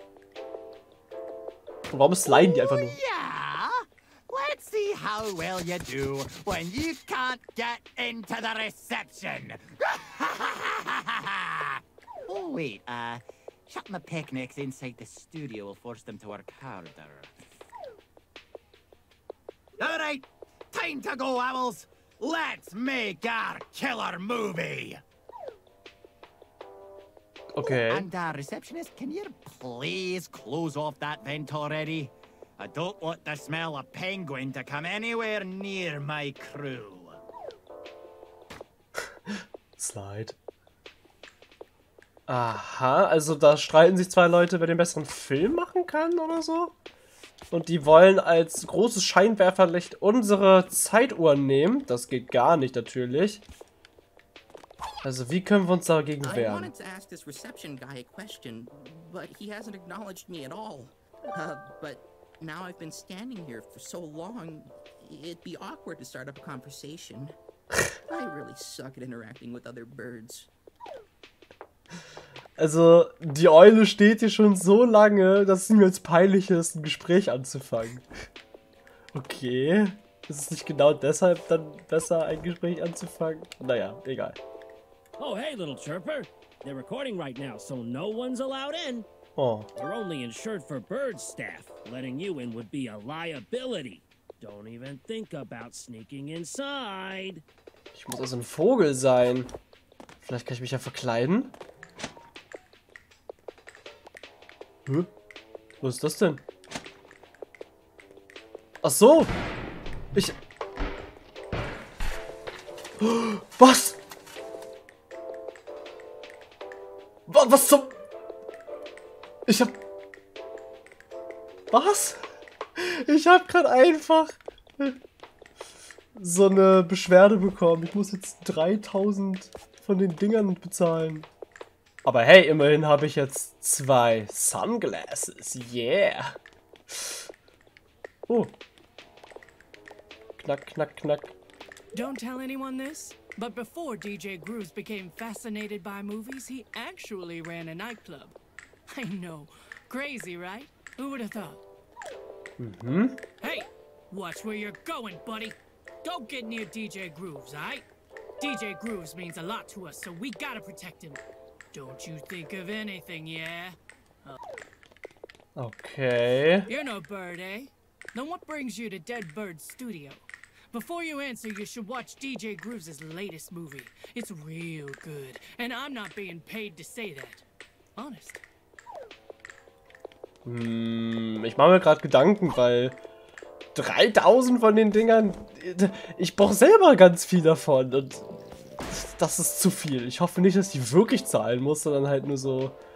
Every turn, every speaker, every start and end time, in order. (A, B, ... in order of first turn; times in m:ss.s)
0:01.9-0:03.0 A
0:02.4-0:17.3 B
0:19.8-0:25.0 B
0:27.5-0:28.1 A
0:27.8-0:37.2 B
0:39.0-0:40.4 A
0:42.3-0:46.7 A
0:47.5-0:53.4 A
0:55.0-0:56.7 A
0:56.2-1:07.4 C
1:08.1-1:10.5 C
1:12.6-1:18.1 A
1:19.1-1:24.4 A
1:25.2-1:29.1 D
1:29.4-1:29.7 A
1:29.8-1:37.4 D
1:37.9-1:39.5 A
1:40.2-1:41.5 A
1:45.8-1:46.4 A
1:48.8-1:49.3 A
1:53.0-1:54.0 A
1:57.3-1:58.0 A
1:59.5-1:59.8 A
2:01.7-2:02.2 A
2:02.8-2:05.0 A
2:06.2-2:11.3 A
2:12.0-2:16.4 A
2:16.9-2:17.2 A
2:18.3-2:18.5 A
2:20.4-2:21.4 A
2:21.9-2:28.4 E
2:28.9-2:31.6 E
2:32.6-2:33.2 A
2:33.4-2:37.8 E
2:38.4-2:41.2 E
2:41.7-2:44.4 E
2:45.6-2:46.7 A
2:46.7-2:57.4 E
2:58.0-2:58.4 E
3:00.4-3:03.0 A
3:03.8-3:08.3 A
3:08.9-3:12.8 A